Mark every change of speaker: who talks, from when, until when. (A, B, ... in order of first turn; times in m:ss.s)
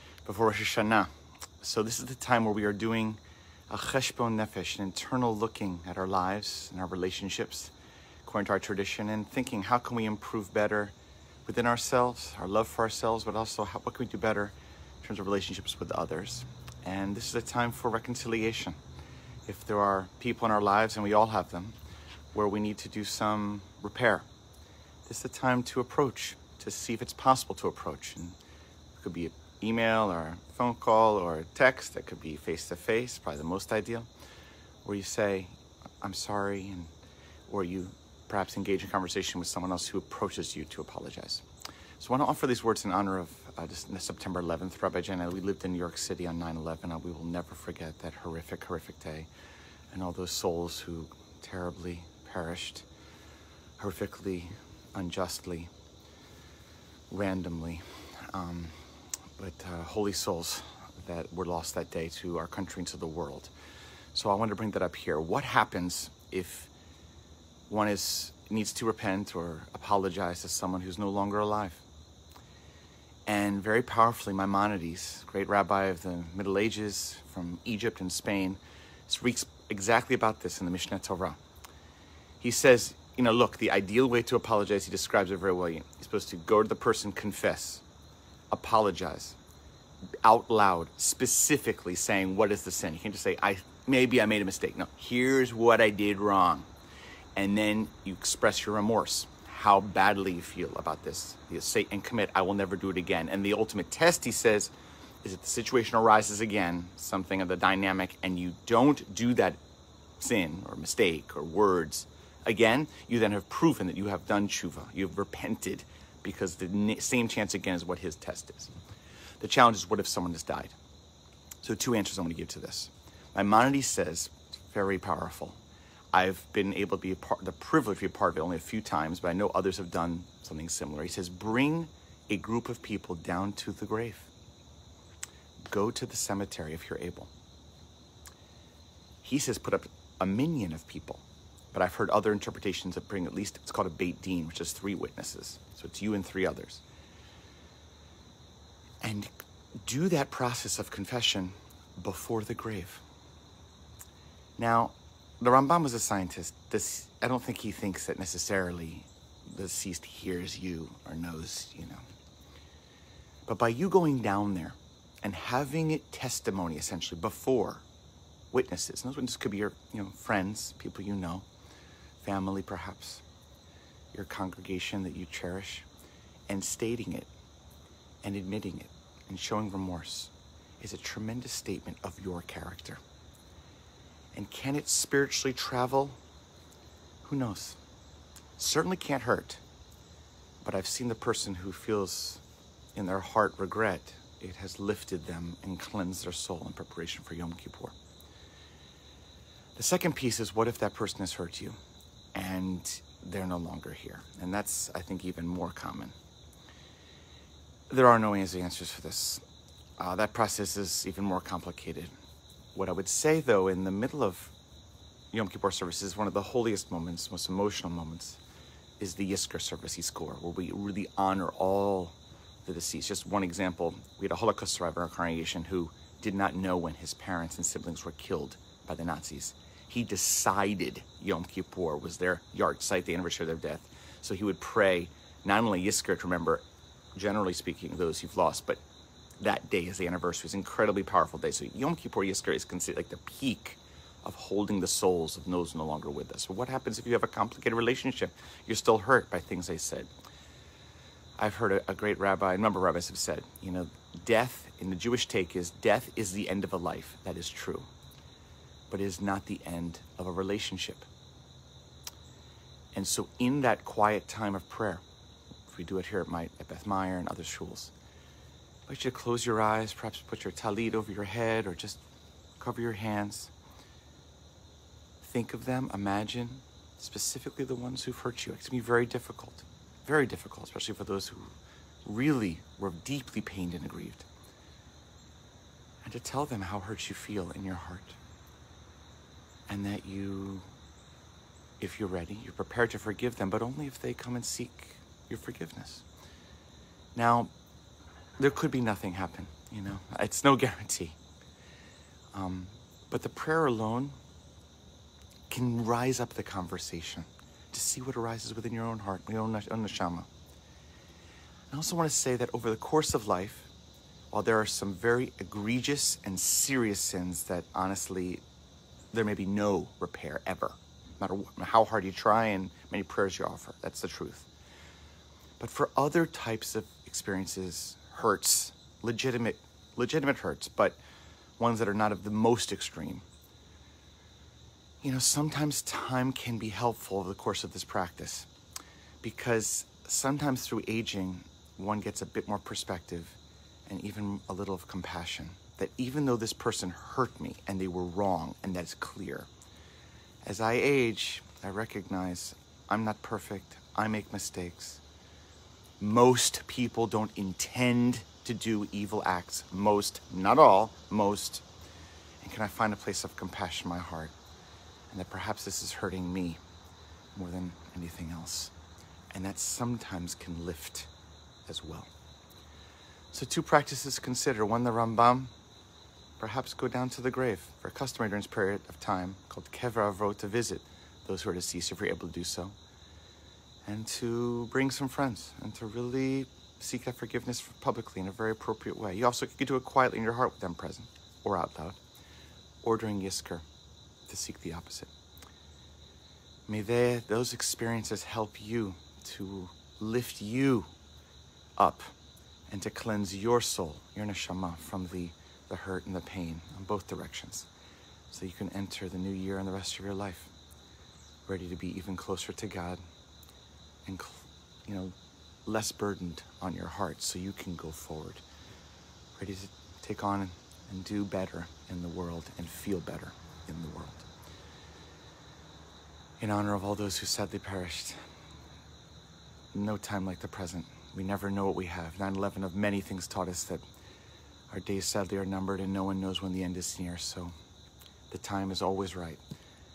0:00.2-0:01.1 A
0:01.6-0:07.7 A
0:08.3-0:11.0 A
0:11.5-0:18.8 A
0:19.5-0:21.8 A
0:22.3-0:24.3 A
0:25.1-0:28.4 A
0:29.0-0:34.1 A
0:34.8-0:36.9 A
0:37.5-0:41.4 A
0:42.0-0:49.3 A
0:49.9-0:52.8 A
0:53.8-0:55.7 A
0:57.1-0:58.8 A
0:59.4-1:03.5 A
1:04.1-1:06.7 A
1:07.7-1:11.8 A
1:13.3-1:21.4 A
1:22.4-1:27.8 A
1:28.5-1:29.4 A
1:30.2-1:36.7 A
1:37.4-1:44.7 A
1:45.2-1:49.6 A
1:50.2-1:58.7 A
1:59.4-2:00.8 A
2:01.6-2:05.6 A
2:06.1-2:14.3 A
2:15.7-2:17.3 A
2:19.2-2:26.8 A
2:29.0-2:29.3 A
2:29.8-2:33.0 A
2:34.6-2:42.0 A
2:43.5-2:47.8 A
2:48.5-2:51.5 A
2:52.2-2:53.2 A
2:54.1-2:55.9 A
2:56.5-2:57.3 A
2:58.2-3:03.0 A
3:04.3-3:06.2 A
3:07.2-3:07.8 A
3:08.6-3:09.6 A
3:10.6-3:12.4 A
3:13.0-3:18.0 A
3:19.8-3:21.8 A
3:22.4-3:26.2 A
3:27.9-3:29.4 A
3:30.0-3:32.1 A
3:32.8-3:34.5 A
3:35.3-3:38.4 A
3:39.0-3:58.8 A
3:59.4-4:10.1 A
4:11.4-4:17.9 A
4:18.9-4:21.1 A
4:22.9-4:25.0 A
4:25.7-4:27.9 A
4:28.9-4:32.0 A
4:32.6-4:33.5 A
4:35.2-4:44.3 A
4:46.0-4:48.2 A
4:49.7-4:50.7 A
4:51.8-4:56.0 A
4:57.2-4:57.5 A
4:58.4-5:01.2 A
5:02.3-5:04.2 A
5:05.5-5:10.3 A
5:11.7-5:13.7 A
5:14.3-5:18.4 A
5:19.1-5:24.5 A
5:25.6-5:31.0 A
5:31.6-5:33.2 A
5:35.0-5:38.5 A
5:39.2-5:49.5 A
5:50.4-5:55.0 A
5:56.0-6:01.6 A
6:02.4-6:04.3 A
6:05.1-6:06.6 A
6:07.4-6:08.7 A
6:09.3-6:11.1 A
6:11.6-6:12.1 A
6:13.3-6:15.5 A
6:16.4-6:22.8 A
6:23.9-6:32.0 A
6:32.8-6:33.6 A
6:34.3-6:35.1 A
6:36.7-6:40.9 A
6:41.8-6:42.1 A
6:42.7-6:47.7 A
6:48.3-6:50.5 A
6:51.5-6:53.0 A
6:54.1-6:58.4 A
6:59.4-7:04.3 A
7:06.4-7:08.2 A
7:09.7-7:13.8 A
7:14.7-7:17.5 A
7:18.3-7:19.4 A